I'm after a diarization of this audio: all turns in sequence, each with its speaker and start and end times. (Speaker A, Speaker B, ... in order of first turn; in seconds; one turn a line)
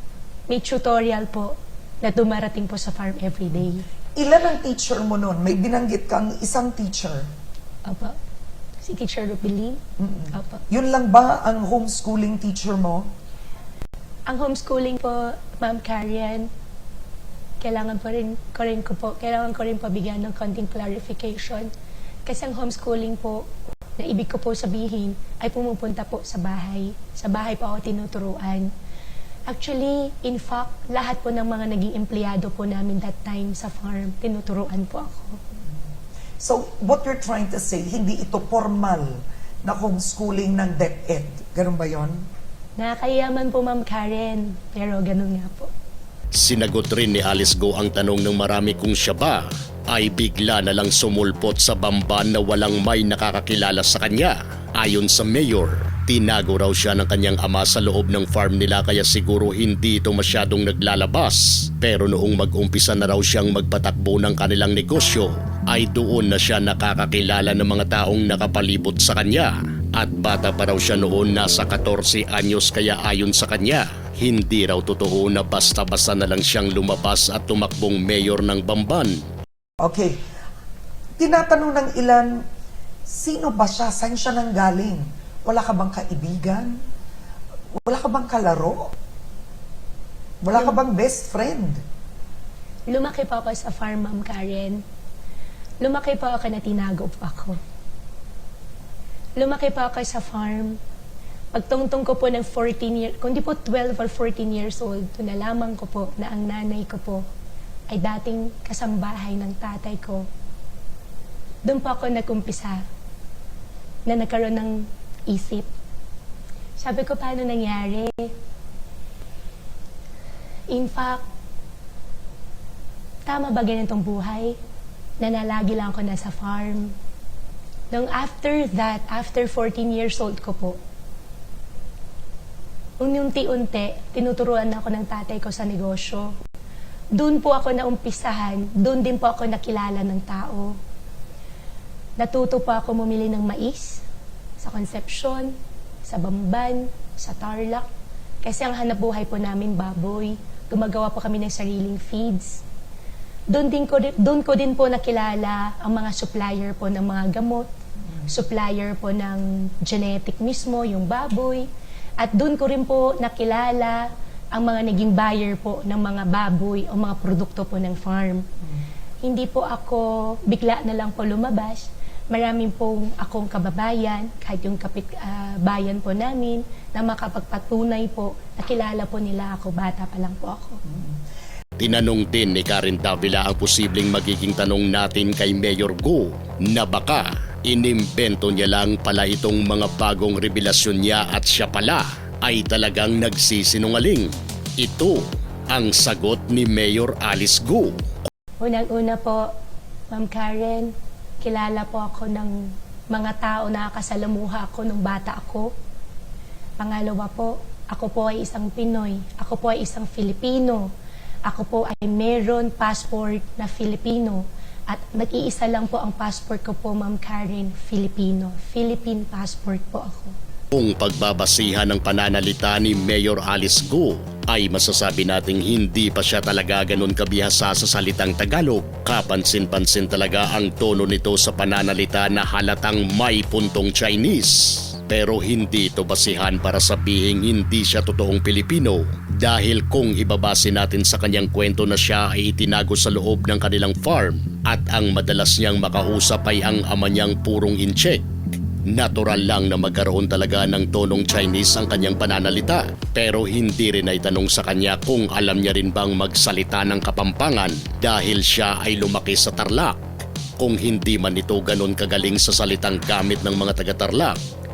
Speaker A: 0.5-3.9
Speaker B: 4.2-7.3
Speaker A: 7.8-8.2
Speaker A: 8.8-9.8
Speaker B: 10.0-13.1
Speaker A: 10.3-10.6
Speaker A: 14.3-16.5
Speaker A: 17.6-21.7
Speaker A: 22.2-28.7
Speaker A: 29.5-35.4
Speaker B: 36.4-42.2
Speaker A: 42.8-45.7
Speaker C: 46.3-79.2
Speaker B: 79.8-80.2
Speaker B: 81.2-82.4
Speaker B: 83.1-86.8
Speaker B: 87.9-88.9
Speaker B: 90.4-91.8
Speaker A: 92.9-94.8
Speaker A: 95.8-97.6
Speaker A: 99.4-100.8
Speaker A: 101.5-107.2
Speaker A: 107.9-110.3
Speaker A: 111.7-112.8
Speaker A: 114.1-115.7
Speaker A: 116.8-118.3
Speaker A: 120.7-121.2
Speaker A: 123.2-124.6
Speaker A: 125.2-127.0
Speaker A: 127.9-130.8
Speaker A: 133.0-136.3
Speaker A: 137.1-140.8
Speaker A: 142.2-144.0
Speaker A: 144.6-145.5
Speaker A: 146.0-147.9
Speaker A: 148.4-152.6
Speaker A: 153.5-157.7
Speaker A: 158.2-161.7
Speaker A: 162.2-168.5
Speaker A: 169.2-180.8
Speaker B: 180.9-181.2
Speaker C: 181.8-198.0
Speaker A: 198.6-199.5
Speaker A: 200.1-205.7
Speaker A: 206.8-210.9
Speaker A: 211.5-220.3
Speaker C: 220.7-248.3
Speaker C: 248.9-260.0
Speaker C: 260.6-264.4